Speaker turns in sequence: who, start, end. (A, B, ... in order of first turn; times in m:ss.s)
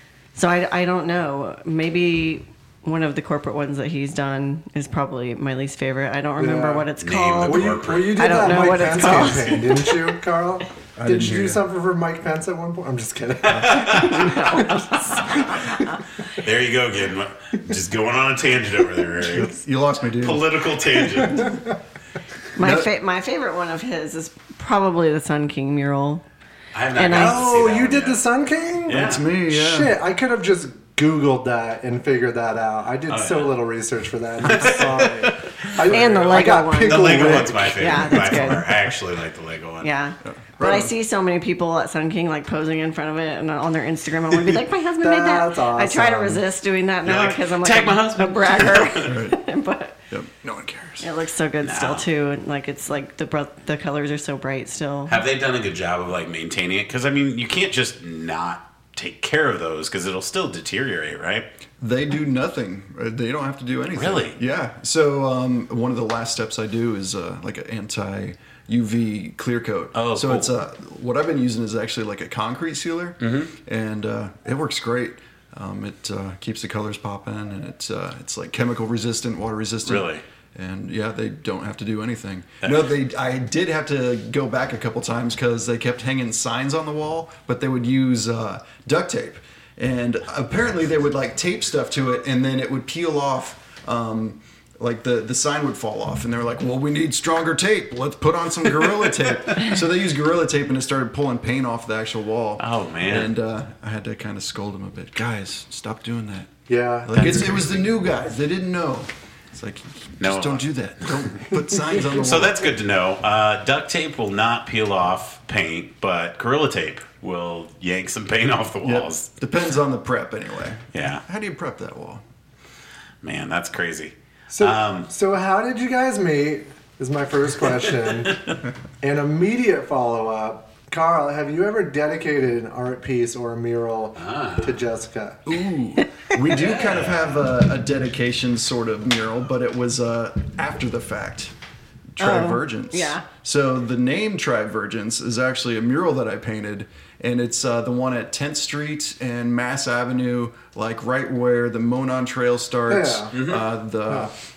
0:00.3-0:10.0 A
0:06.4-0:06.9 B
0:07.0-0:09.6 C
0:07.4-0:15.7 B
0:11.0-0:11.6 D
0:13.4-0:15.5 C
0:13.5-0:14.0 D
0:14.3-0:16.0 A
0:16.3-0:19.6 C
0:19.2-0:20.5 D
0:20.2-0:21.6 C
0:21.2-0:21.6 B
0:22.6-0:26.2 A
0:22.6-0:22.9 D
0:26.7-0:28.2 C
0:26.9-0:27.5 A
0:27.1-0:38.6 B
0:28.8-0:29.2 C
0:28.9-0:29.9 D
0:33.1-0:33.5 C
0:34.4-0:39.9 C
0:35.9-0:38.7 A
0:39.8-0:50.0 A
0:40.2-0:40.9 D
0:45.0-0:46.4 B
0:47.0-0:49.1 C
0:49.0-0:49.4 D
0:50.1-0:51.1 D
0:51.0-0:55.2 A
0:51.6-0:52.0 C
0:55.1-1:01.5 C
1:01.8-1:46.5 D
1:03.9-1:04.4 C
1:09.9-1:10.6 C
1:13.2-1:13.5 C
1:19.8-1:20.2 C
1:42.6-1:43.3 C
1:46.7-1:47.6 B
1:47.0-1:52.7 D
1:47.2-1:47.6 C
1:50.2-1:51.3 C
1:52.0-1:59.3 C
1:58.8-2:02.2 D
2:00.9-2:01.2 C
2:03.2-2:05.1 C
2:04.5-2:08.4 B
2:09.0-2:15.4 B
2:14.2-2:14.8 C
2:15.4-2:21.5 D
2:16.5-2:17.4 C
2:22.2-2:34.3 D
2:22.2-2:23.2 A
2:32.9-2:33.3 B
2:33.3-2:33.6 C